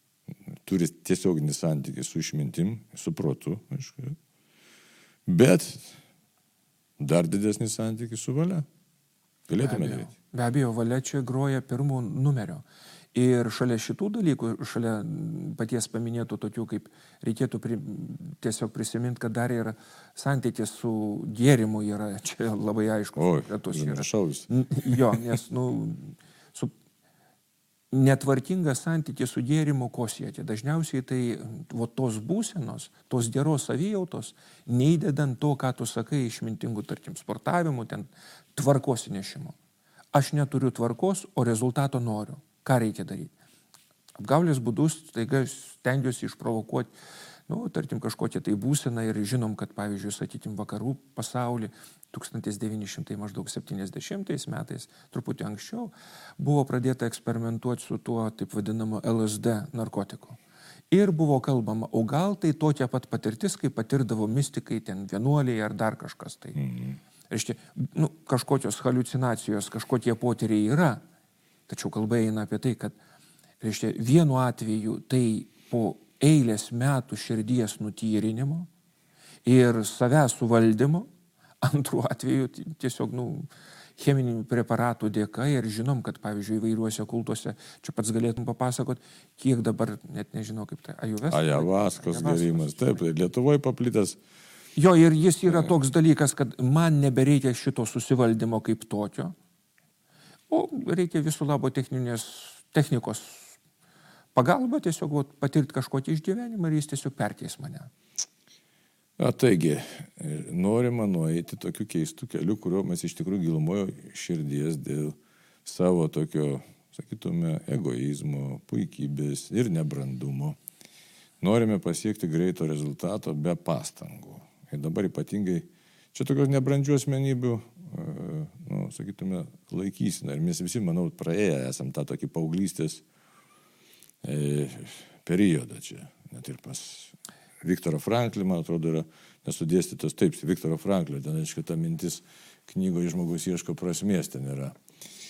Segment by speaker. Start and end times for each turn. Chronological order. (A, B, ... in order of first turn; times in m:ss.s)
0:00.5-0:04.2 A
0:05.3-0:06.0 A
0:07.0-0:08.7 A
0:09.5-0:10.1 A
0:09.6-0:26.7 B
0:23.2-0:25.2 A
0:27.9-0:39.6 B
0:40.1-0:43.3 B
0:44.2-0:46.9 B
0:47.5-1:00.4 B
1:00.9-1:06.6 B
1:06.6-1:07.0 A
1:07.3-1:11.0 B
1:11.7-1:13.0 B
1:13.6-1:18.7 B
1:19.5-1:21.1 B
1:21.6-1:33.0 B
1:31.3-1:34.2 A
1:34.8-1:39.3 B
1:40.5-1:43.6 B
1:44.3-1:47.9 B
1:49.2-2:00.6 A
2:01.4-2:13.0 A
2:14.2-2:24.8 A